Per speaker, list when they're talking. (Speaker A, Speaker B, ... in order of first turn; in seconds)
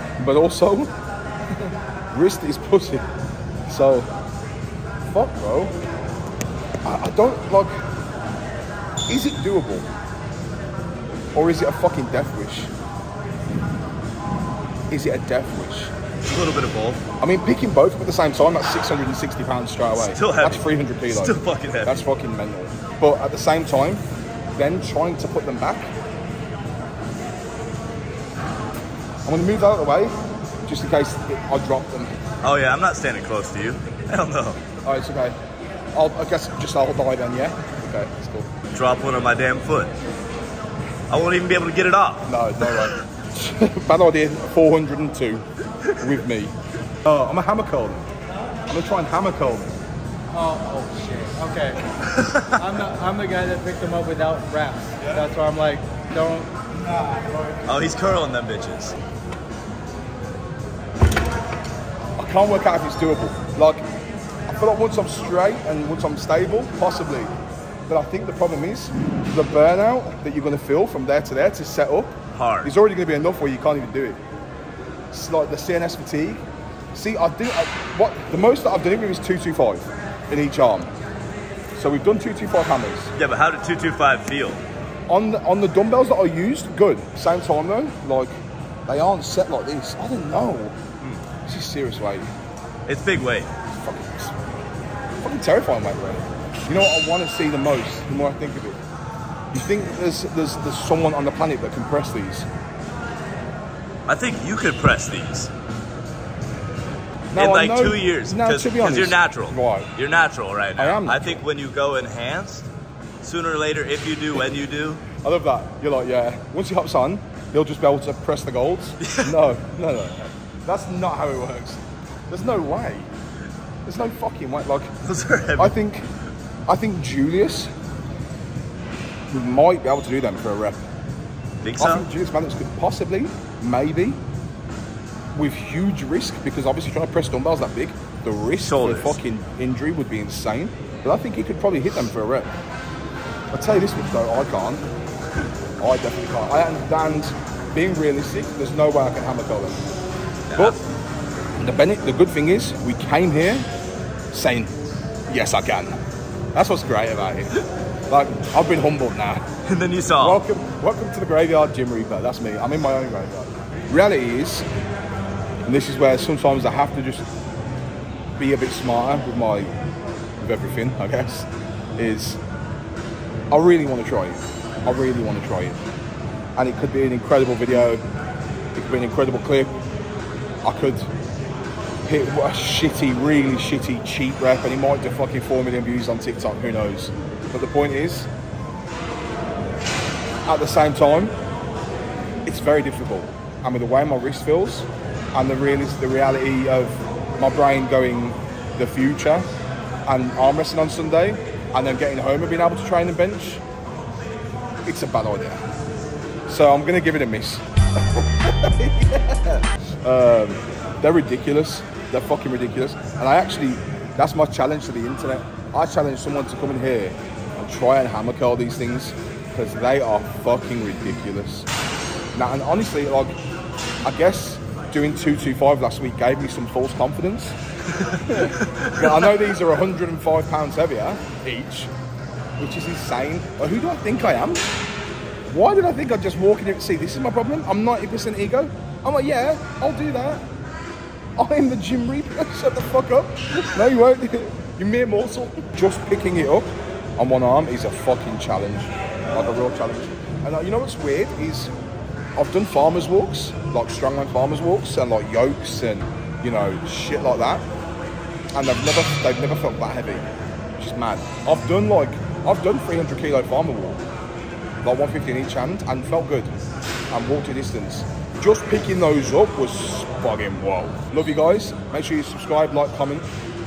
Speaker A: 0.2-0.9, 2.1-3.0, 3.7-4.1, 5.1-5.7, 6.8-7.7, 9.1-9.9, 11.3-12.7, 14.9-15.9, 17.2-24.0, 24.6-25.9, 29.2-32.1, 34.8-35.4, 35.9-38.5, 42.3-45.5, 46.0-48.1, 48.7-49.7, 62.2-63.8, 64.5-67.3, 67.9-74.2, 75.1-76.4, 76.9-80.9, 81.7-83.1, 85.1-90.8, 91.4-92.2, 93.7-94.3, 95.2-98.8, 99.5-102.5, 107.3-109.9, 110.8-111.4, 115.2-123.1, 123.8-124.9, 125.5-126.1, 126.7-127.7, 129.3-130.8, 131.8-134.2, 135.3-142.5, 143.5-144.9, 145.8-149.8, 150.5-150.8, 151.6-153.7, 154.3-154.8, 155.3-155.9, 156.5-159.4, 160.2-164.7, 165.7-167.3, 168.4-169.7, 170.4-172.4, 173.5-175.8, 176.6-178.0, 178.7-179.7, 180.6-181.1, 182.0-188.3, 190.5-191.3, 192.4-199.5, 200.1-203.6, 204.8-205.6, 206.5-221.7, 222.3-223.3, 224.0-227.6, 228.1-231.9, 232.6-234.7, 235.5-240.4, 241.3-251.7, 252.4-257.6, 258.5-264.0, 264.8-266.5, 267.1-273.3
Speaker B: 16.2-17.0, 19.9-22.0, 32.4-34.6, 38.7-39.9, 41.1-43.0, 52.0-52.9, 57.6-59.0, 72.3-72.7, 83.2-84.6, 92.9-93.5, 104.1-105.5, 107.3-112.7, 113.2-115.0, 119.0-119.3, 125.0-125.8, 131.6-132.1, 138.6-139.2, 150.5-150.8, 159.7-160.4
Speaker C: 50.3-51.8, 52.6-57.6